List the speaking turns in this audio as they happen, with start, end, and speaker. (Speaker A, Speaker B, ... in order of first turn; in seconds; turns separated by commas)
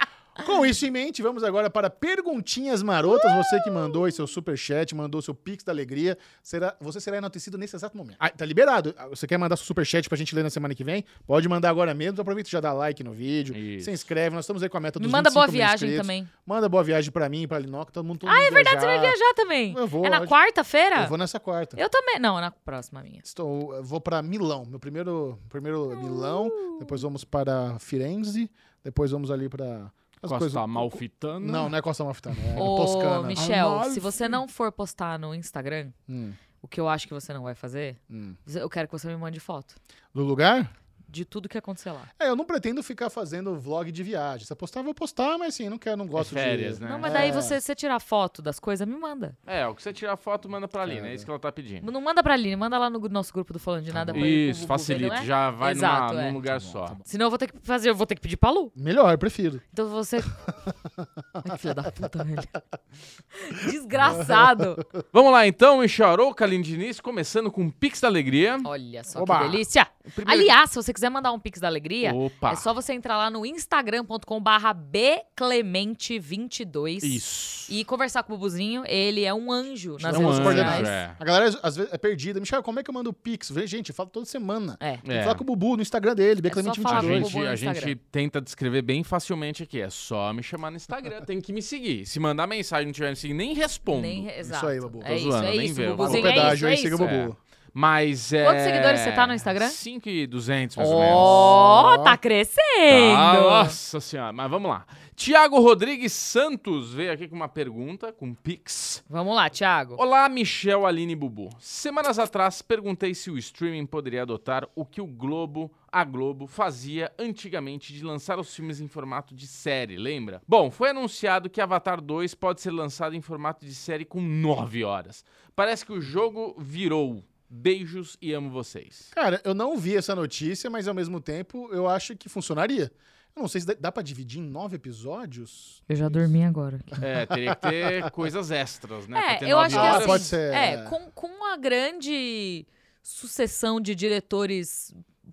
Speaker A: 0.4-19.2, Speaker B: 3.5-3.8, Speaker C: 13.5-14.0, Speaker B: 15.0-16.3, Speaker B: 18.2-21.1, Speaker A: 19.7-20.4, Speaker A: 21.0-21.8, Speaker B: 21.8-23.2, Speaker A: 23.2-33.5, Speaker B: 25.9-26.9, Speaker C: 30.2-31.7, Speaker C: 32.4-32.6, Speaker B: 32.6-36.0, Speaker C: 33.4-34.3, Speaker A: 36.1-36.4, Speaker B: 36.6-39.8, Speaker A: 38.1-38.4, Speaker A: 40.1-40.7, Speaker B: 41.1-42.1, Speaker A: 42.2-47.6, Speaker C: 46.1-47.4, Speaker B: 46.9-49.4, Speaker C: 49.5-51.9, Speaker A: 50.8-51.3, Speaker B: 51.8-56.4, Speaker C: 54.0-57.0, Speaker A: 54.1-54.3, Speaker A: 56.5-57.0, Speaker B: 57.0-58.7, Speaker A: 58.8-59.6, Speaker B: 59.7-60.3, Speaker A: 60.3-61.7, Speaker B: 61.4-62.5, Speaker B: 63.4-64.8, Speaker A: 64.1-64.8, Speaker C: 65.1-68.7, Speaker B: 68.6-81.0, Speaker A: 69.1-69.6, Speaker C: 70.1-70.5, Speaker C: 72.0-72.7, Speaker C: 77.0-77.7, Speaker A: 80.0-87.3, Speaker C: 80.1-81.2, Speaker C: 85.0-85.4, Speaker B: 86.5-88.0, Speaker C: 86.9-94.3, Speaker B: 93.9-97.1, Speaker A: 94.4-95.3, Speaker C: 95.0-101.6, Speaker A: 96.0-97.4, Speaker B: 98.4-99.8, Speaker A: 100.8-102.2, Speaker B: 100.9-103.8, Speaker C: 102.9-109.0, Speaker B: 109.1-110.0, Speaker C: 110.0-129.1, Speaker A: 129.1-136.3, Speaker B: 135.9-137.0, Speaker C: 137.0-140.3, Speaker A: 137.3-138.1, Speaker B: 139.1-144.9, Speaker A: 139.7-140.9